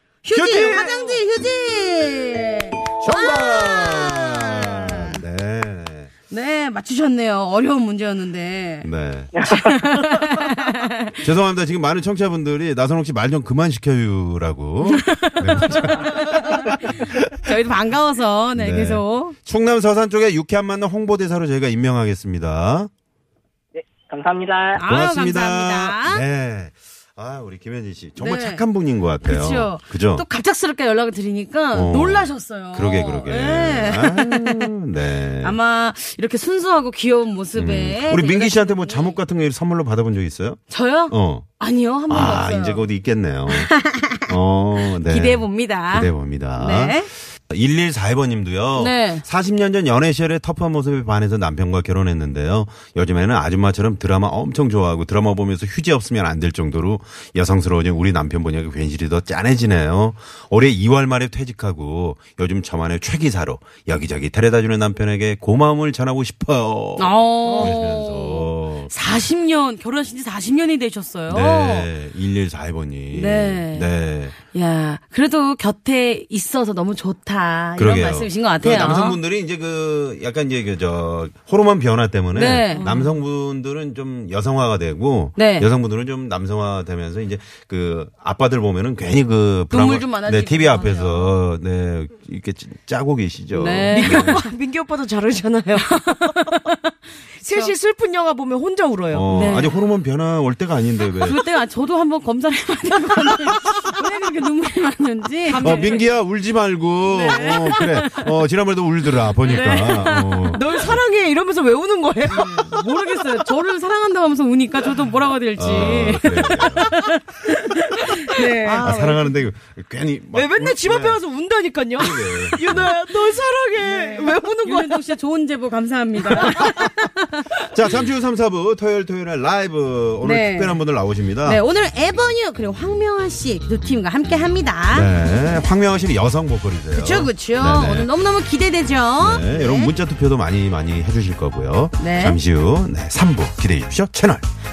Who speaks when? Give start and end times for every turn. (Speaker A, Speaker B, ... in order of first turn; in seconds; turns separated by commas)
Speaker A: 0.2-5.2, Speaker B: 0.3-1.2, Speaker B: 3.0-6.1, Speaker A: 6.3-8.9, Speaker B: 8.8-9.3, Speaker C: 9.3-10.3, Speaker A: 9.5-11.2, Speaker B: 11.2-17.3, Speaker A: 14.8-19.4, Speaker B: 18.5-22.9, Speaker C: 23.7-24.8, Speaker A: 24.7-26.2, Speaker B: 24.8-30.2, Speaker A: 28.2-28.6, Speaker A: 29.2-34.7, Speaker B: 31.7-35.6, Speaker A: 35.4-39.1, Speaker B: 37.5-41.5, Speaker A: 40.7-42.9, Speaker B: 42.1-43.7, Speaker A: 43.5-47.1, Speaker B: 44.3-68.9, Speaker A: 48.7-49.2, Speaker A: 67.0-71.9, Speaker D: 67.5-67.7, Speaker B: 71.3-74.3, Speaker A: 73.1-73.9, Speaker A: 74.5-79.2, Speaker B: 77.8-94.4, Speaker A: 82.3-82.9, Speaker D: 82.7-83.1, Speaker A: 85.3-85.7, Speaker A: 89.7-91.4, Speaker A: 93.5-94.5, Speaker D: 93.9-96.4, Speaker A: 95.8-96.9, Speaker D: 97.3-99.3, Speaker A: 97.4-97.7, Speaker B: 99.1-101.4, Speaker A: 99.3-99.8, Speaker A: 101.2-106.0, Speaker D: 105.5-106.0, Speaker B: 105.6-111.0, Speaker A: 107.1-108.2, Speaker D: 109.4-112.7, Speaker B: 112.3-112.7, Speaker A: 112.6-118.8, Speaker B: 115.5-116.9, Speaker D: 118.3-119.3, Speaker B: 118.8-121.2, Speaker D: 120.3-125.0, Speaker B: 122.0-123.0, Speaker A: 123.8-127.5, Speaker B: 127.6-131.6, Speaker A: 130.2-130.8, Speaker A: 131.4-135.1, Speaker B: 134.9-138.1, Speaker A: 136.9-139.9, Speaker B: 139.2-144.4, Speaker A: 142.0-142.4